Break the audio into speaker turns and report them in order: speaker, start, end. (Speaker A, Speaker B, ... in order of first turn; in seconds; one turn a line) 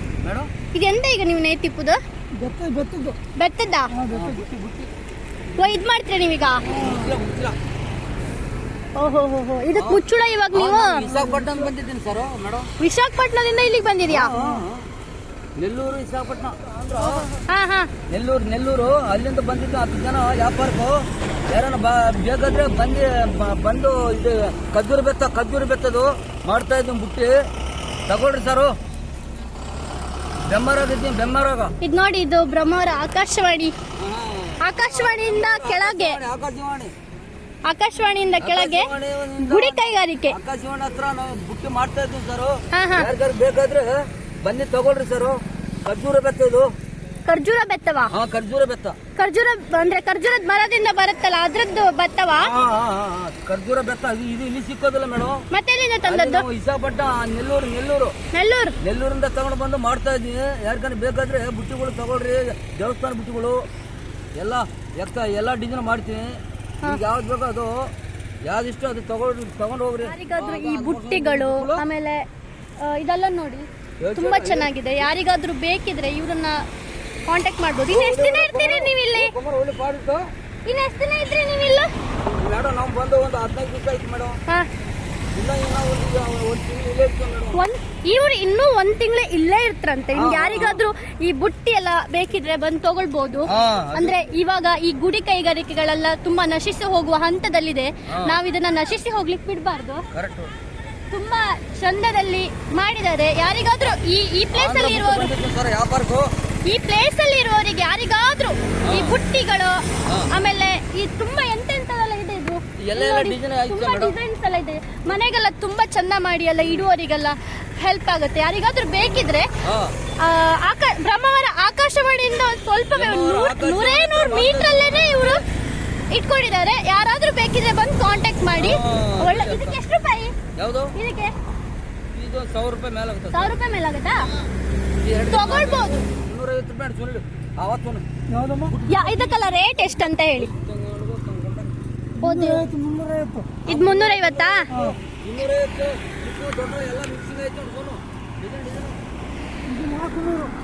Speaker A: 0.2-0.5
Speaker B: 0.7-2.0
Speaker C: 2.4-3.1
Speaker B: 3.4-3.9
Speaker C: 3.9-4.4
Speaker A: 4.1-4.9
Speaker B: 5.6-6.7
Speaker A: 6.7-7.6
Speaker C: 6.7-7.0
Speaker B: 9.0-11.0
Speaker A: 9.8-10.0
Speaker A: 10.5-12.7
Speaker B: 12.8-14.3
Speaker A: 14.1-14.8
Speaker A: 15.6-17.3
Speaker B: 17.5-17.9
Speaker A: 18.1-27.3
Speaker A: 28.1-28.7
Speaker A: 30.5-31.7
Speaker B: 31.8-33.7
Speaker A: 34.0-36.9
Speaker B: 34.6-36.2
Speaker B: 37.7-38.9
Speaker A: 38.4-46.7
Speaker B: 39.4-40.4
Speaker B: 42.7-43.1
Speaker B: 47.2-48.1
Speaker A: 48.1-49.0
Speaker B: 49.2-52.5
Speaker A: 52.4-55.4
Speaker B: 55.5-56.5
Speaker A: 56.0-58.1
Speaker B: 58.3-58.7
Speaker A: 58.8-63.6
Speaker A: 64.4-67.9
Speaker A: 68.5-71.8
Speaker B: 70.0-72.2
Speaker B: 72.8-76.6
Speaker A: 74.0-74.7
Speaker B: 77.3-79.3
Speaker A: 77.9-80.2
Speaker B: 80.7-81.9
Speaker A: 82.2-84.4
Speaker A: 85.3-87.6
Speaker B: 87.5-100.1
Speaker A: 90.1-90.8
Speaker A: 93.5-94.2
Speaker A: 98.1-98.4
Speaker A: 100.1-100.5
Speaker B: 101.1-105.3
Speaker A: 104.5-106.3
Speaker B: 106.7-119.5
Speaker A: 108.9-109.2
Speaker A: 112.8-114.2
Speaker A: 119.6-120.0
Speaker B: 120.2-125.4
Speaker A: 122.9-125.4
Speaker B: 126.1-130.3
Speaker A: 128.6-129.8
Speaker A: 130.6-130.9
Speaker B: 130.9-131.3
Speaker A: 132.1-133.5
Speaker B: 133.3-134.2
Speaker A: 135.0-138.0
Speaker B: 135.3-136.0
Speaker C: 138.3-138.7
Speaker A: 138.7-139.5
Speaker B: 138.9-140.5
Speaker A: 140.4-141.7
Speaker B: 142.2-142.7
Speaker C: 142.2-143.5
Speaker B: 143.6-144.7
Speaker A: 143.7-149.0
Speaker C: 149.7-150.5